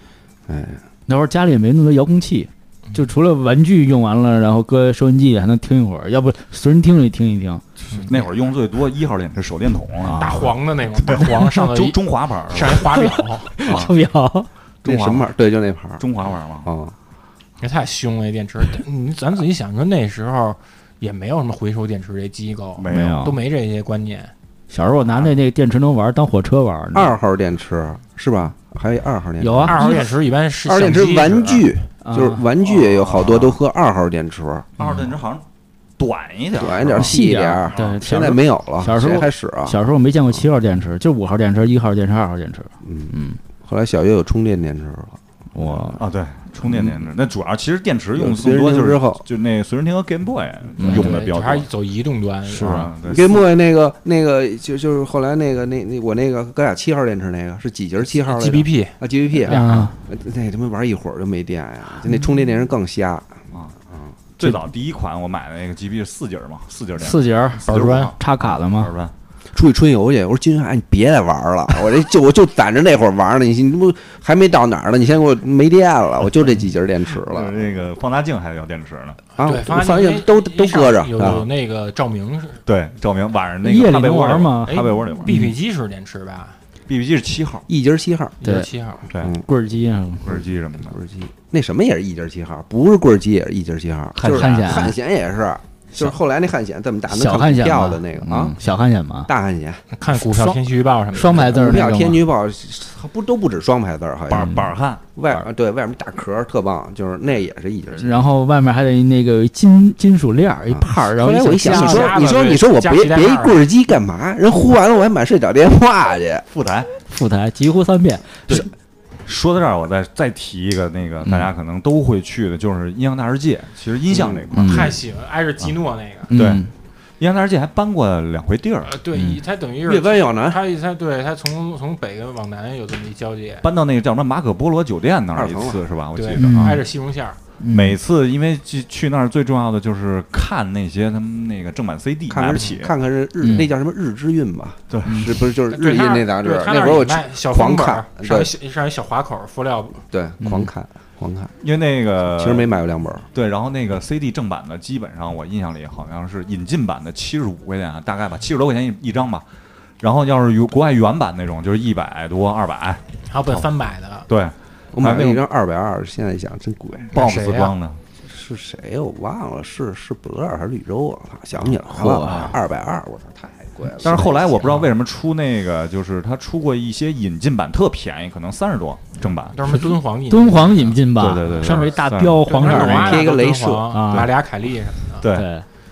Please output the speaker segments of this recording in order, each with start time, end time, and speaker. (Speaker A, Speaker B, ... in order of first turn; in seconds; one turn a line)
Speaker A: 0.5-0.8
Speaker B: 1.1-7.6
Speaker C: 7.9-8.2
Speaker D: 7.9-10.5
Speaker B: 10.0-10.5
Speaker C: 10.1-12.0
Speaker D: 11.0-12.9
Speaker C: 12.5-13.5
Speaker B: 13.0-14.5
Speaker D: 13.6-13.9
Speaker D: 14.8-15.3
Speaker A: 14.8-16.0
Speaker D: 16.0-16.7
Speaker A: 16.6-16.9
Speaker C: 17.6-24.3
Speaker D: 22.8-23.3
Speaker B: 22.9-23.4
Speaker B: 24.7-27.1
Speaker D: 25.1-25.3
Speaker A: 26.9-30.1
Speaker B: 29.4-30.1
Speaker C: 29.6-31.7
Speaker A: 30.6-34.7
Speaker B: 32.0-32.5
Speaker D: 32.6-33.6
Speaker D: 34.8-35.4
Speaker B: 34.8-35.1
Speaker D: 36.0-37.2
Speaker A: 36.6-39.8
Speaker B: 37.0-43.4
Speaker D: 37.7-38.2
Speaker A: 42.8-45.9
Speaker B: 45.5-46.0
Speaker D: 46.0-51.7
Speaker A: 46.6-47.0
Speaker A: 48.1-49.2
Speaker B: 50.8-51.2
Speaker C: 50.9-52.9
Speaker B: 52.5-52.9
Speaker D: 52.6-53.4
Speaker A: 53.0-64.1
Speaker C: 58.2-59.6
Speaker B: 59.4-59.9
Speaker D: 64.4-69.1
Speaker B: 67.0-68.9
Speaker C: 67.7-68.1
Speaker A: 69.5-77.5
Speaker D: 77.2-79.2
Speaker A: 79.3-81.5
Speaker C: 79.4-82.6
Speaker D: 82.7-85.4
Speaker B: 83.6-85.5
Speaker C: 84.7-86.6
Speaker D: 86.9-87.7
Speaker A: 87.7-88.4
Speaker C: 88.4-89.0
Speaker B: 88.4-88.7
Speaker D: 89.1-89.4
Speaker A: 89.1-89.4
Speaker B: 89.4-90.3
Speaker D: 90.2-91.0
Speaker A: 90.3-98.6
Speaker D: 94.2-94.8
Speaker B: 94.2-95.0
Speaker B: 97.1-99.3
Speaker A: 99.3-99.8
Speaker C: 99.9-101.5
Speaker B: 100.1-102.2
Speaker A: 101.2-104.6
Speaker D: 104.3-105.0
Speaker B: 104.3-104.7
Speaker A: 105.2-108.2
Speaker B: 107.9-112.4
Speaker A: 110.7-116.5
Speaker C: 111.6-113.6
Speaker D: 116.5-116.9
Speaker B: 117.1-118.7
Speaker D: 119.2-124.9
Speaker B: 121.2-121.5
Speaker A: 124.1-124.5
Speaker B: 124.5-125.0
Speaker C: 124.6-126.3
Speaker B: 126.3-126.7
Speaker D: 126.3-126.7
Speaker D: 127.2-129.0
Speaker C: 128.8-133.7
Speaker B: 129.1-129.4
Speaker A: 129.8-130.6
Speaker D: 133.6-136.8
Speaker A: 135.3-135.8
Speaker C: 136.1-137.4
Speaker B: 136.4-136.8
Speaker B: 137.6-138.0
Speaker D: 137.7-142.9
Speaker A: 142.3-148.5
Speaker B: 143.4-143.7
Speaker D: 144.9-145.3
Speaker B: 145.0-145.4
Speaker C: 145.7-150.0
Speaker A: 150.1-151.5
Speaker B: 150.4-150.7
Speaker D: 151.6-152.7
Speaker A: 152.3-153.3
Speaker D: 153.3-159.4
Speaker D: 160.0-163.7
Speaker C: 163.2-164.3
Speaker D: 164.3-165.4
Speaker A: 164.9-167.1
Speaker C: 167.1-167.7
Speaker D: 167.1-168.0
Speaker A: 168.2-174.8
Speaker B: 171.8-172.6
Speaker D: 172.2-172.5
Speaker D: 174.0-179.6
Speaker C: 179.5-181.9
Speaker B: 179.7-183.3
Speaker D: 181.1-183.0
Speaker C: 182.4-185.3
Speaker A: 182.6-184.2
Speaker B: 183.9-184.3
Speaker D: 185.2-185.5
Speaker B: 185.3-185.6